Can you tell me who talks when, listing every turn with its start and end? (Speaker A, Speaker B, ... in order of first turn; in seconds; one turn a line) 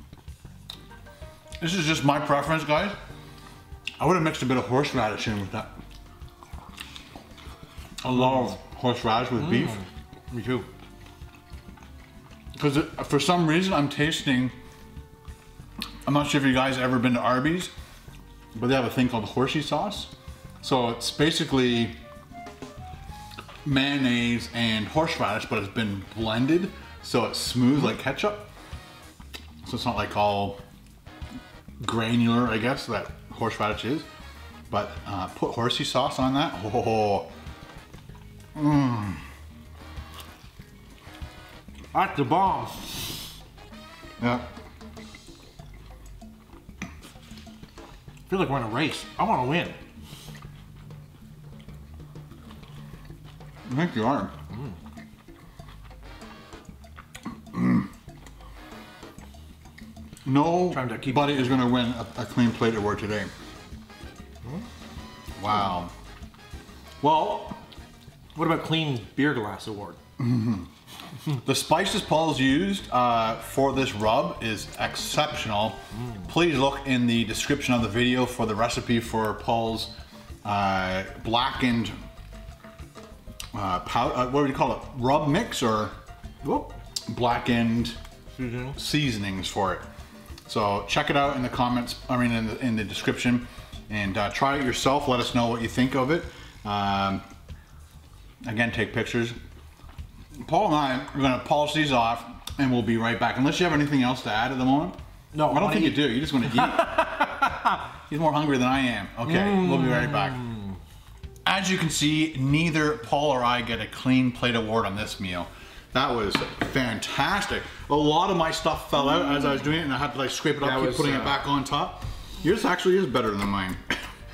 Speaker A: 1.6-3.0
Speaker A: 4.0-5.7
Speaker A: 8.0-9.8
Speaker B: 9.4-10.7
Speaker A: 12.6-14.6
Speaker A: 16.1-17.7
Speaker A: 18.6-20.1
Speaker A: 20.6-22.0
Speaker A: 23.6-28.5
Speaker A: 29.6-30.6
Speaker A: 31.8-34.1
Speaker A: 34.7-37.3
Speaker A: 38.5-39.2
Speaker B: 41.9-43.1
Speaker A: 44.2-44.5
Speaker B: 48.3-49.8
Speaker A: 53.7-54.3
Speaker B: 54.5-54.8
Speaker A: 57.5-57.9
Speaker A: 60.2-63.3
Speaker B: 60.7-61.7
Speaker A: 65.4-65.9
Speaker A: 67.0-67.6
Speaker B: 68.4-70.0
Speaker A: 70.2-70.7
Speaker A: 71.4-79.9
Speaker A: 80.4-82.0
Speaker A: 83.5-86.0
Speaker B: 86.4-86.7
Speaker A: 87.1-88.0
Speaker B: 88.4-88.8
Speaker A: 88.8-89.8
Speaker A: 90.5-97.2
Speaker A: 98.4-99.4
Speaker A: 100.4-107.5
Speaker B: 105.3-107.2
Speaker A: 108.1-110.5
Speaker B: 109.2-110.7
Speaker A: 111.5-123.9
Speaker B: 120.6-121.5